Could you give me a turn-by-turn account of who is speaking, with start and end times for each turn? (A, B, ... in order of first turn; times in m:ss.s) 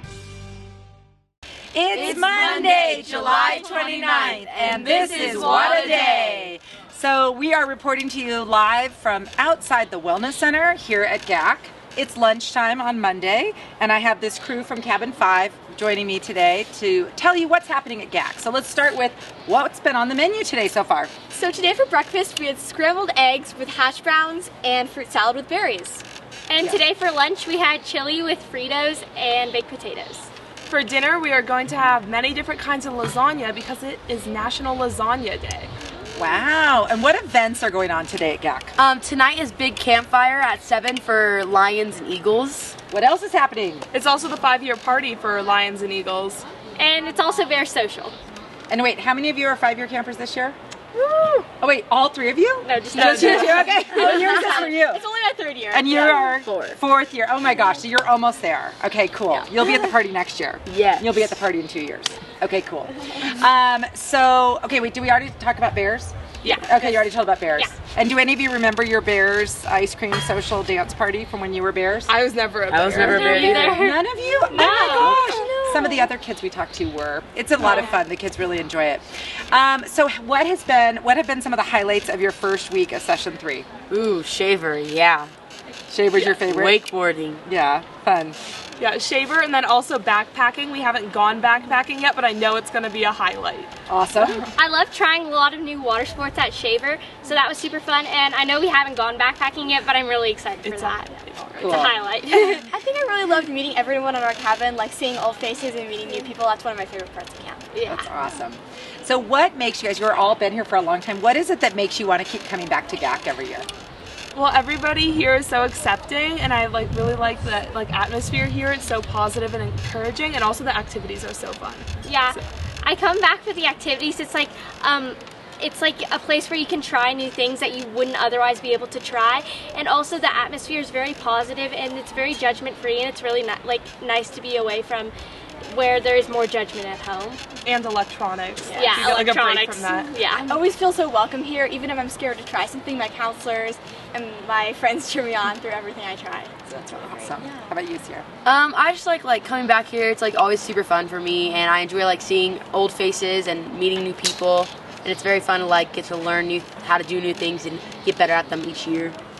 0:01.7-0:21.1 A
0:04.6-0:06.0 B
0:21.3-0:26.0 C
0:26.5-0:30.3 D
0:30.7-0:35.7 B
0:36.2-0:38.7 A
0:38.8-0:42.8 E
0:42.9-0:43.8 A
0:43.9-0:46.4 B
0:46.8-0:48.1 D
0:48.7-0:50.6 A
0:51.0-0:51.4 E
0:51.6-0:55.0 A
0:52.6-0:54.2 D
0:52.9-0:53.7 B
0:53.5-0:56.4 C
0:55.7-1:12.1 A
0:56.3-0:56.8 E
1:00.6-1:01.4 E
1:06.4-1:07.0 B
1:12.1-1:13.8 B
1:12.7-1:13.8 E
1:13.0-1:15.2 D
1:13.2-1:23.7 A
1:14.6-1:16.0 B
1:14.9-1:15.2 E
1:23.9-1:25.3 E
1:25.9-1:26.8 A
1:26.1-1:26.4 B
1:26.4-1:27.4 E
1:27.4-1:28.4 A
1:28.8-1:33.7 B
1:33.9-1:34.5 A
1:34.5-1:42.7 D
1:40.6-1:41.0 B
1:41.6-1:42.0 A
1:42.7-1:47.6 C
1:47.7-1:48.1 D
1:47.8-1:53.7 A
1:54.3-2:02.4 B
2:02.0-2:17.4 D
2:17.6-2:20.1 B
2:18.7-2:19.0 C
2:18.7-2:20.6 D
2:20.4-2:27.7 C
2:26.7-2:28.2 A
2:28.4-2:39.2 E